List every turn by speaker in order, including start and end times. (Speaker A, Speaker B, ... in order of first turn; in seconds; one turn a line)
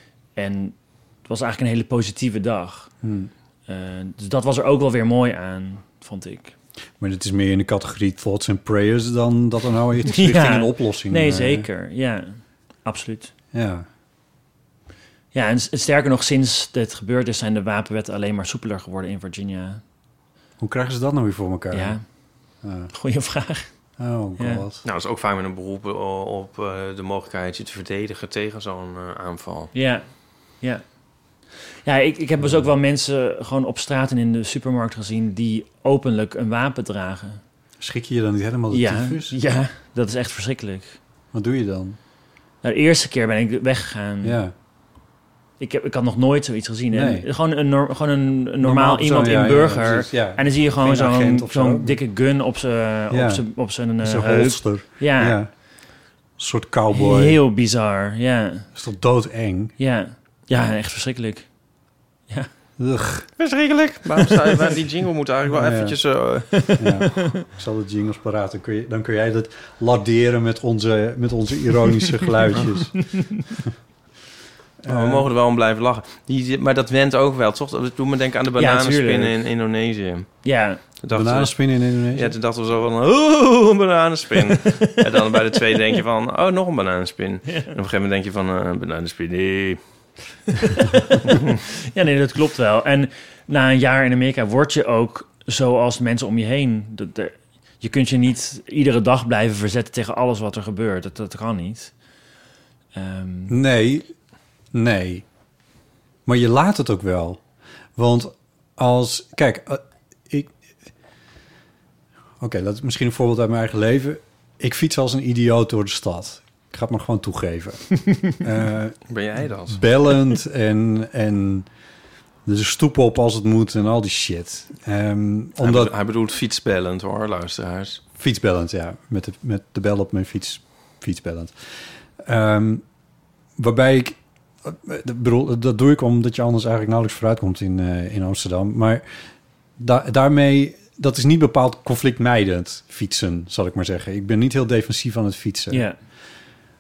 Speaker A: 0.4-2.9
Speaker B: 3.0-3.3
Speaker A: 3.7-6.5
Speaker B: 7.0-11.7
Speaker A: 10.1-13.3
Speaker B: 13.5-13.9
Speaker A: 15.3-19.8
Speaker B: 20.6-22.0
Speaker A: 21.7-22.0
Speaker B: 22.6-22.9
Speaker A: 22.9-23.7
Speaker B: 24.0-24.8
Speaker A: 24.4-24.6
Speaker C: 24.8-29.7
Speaker A: 29.7-30.8
Speaker A: 31.9-37.4
Speaker B: 32.4-32.7
Speaker B: 37.8-39.4
Speaker A: 38.7-41.0
Speaker B: 41.3-42.0
Speaker A: 42.6-44.4
Speaker B: 44.2-44.5
Speaker A: 45.6-55.4
Speaker B: 46.9-47.3
Speaker B: 48.6-52.0
Speaker B: 53.1-55.5
Speaker B: 56.4-57.4
Speaker A: 56.9-58.7
Speaker B: 58.8-59.7
Speaker A: 59.8-61.5
Speaker B: 62.8-63.3
Speaker C: 63.4-66.7
Speaker B: 65.5-66.0
Speaker B: 66.6-73.2
Speaker A: 66.6-66.9
Speaker B: 74.8-75.3
Speaker C: 74.9-89.8
Speaker A: 78.6-79.4
Speaker A: 80.4-80.8
Speaker B: 81.1-82.3
Speaker A: 87.5-87.7
Speaker A: 91.9-101.9
Speaker A: 103.0-103.6
Speaker B: 103.5-104.1
Speaker B: 104.7-105.3
Speaker B: 106.3-107.4
Speaker B: 108.0-110.6
Speaker B: 112.4-119.0
Speaker C: 119.1-119.8
Speaker B: 119.7-121.7
Speaker B: 122.5-125.9
Speaker C: 125.6-128.0
Speaker B: 128.2-132.8
Speaker B: 133.6-139.1
Speaker B: 139.8-145.9
Speaker A: 145.7-146.0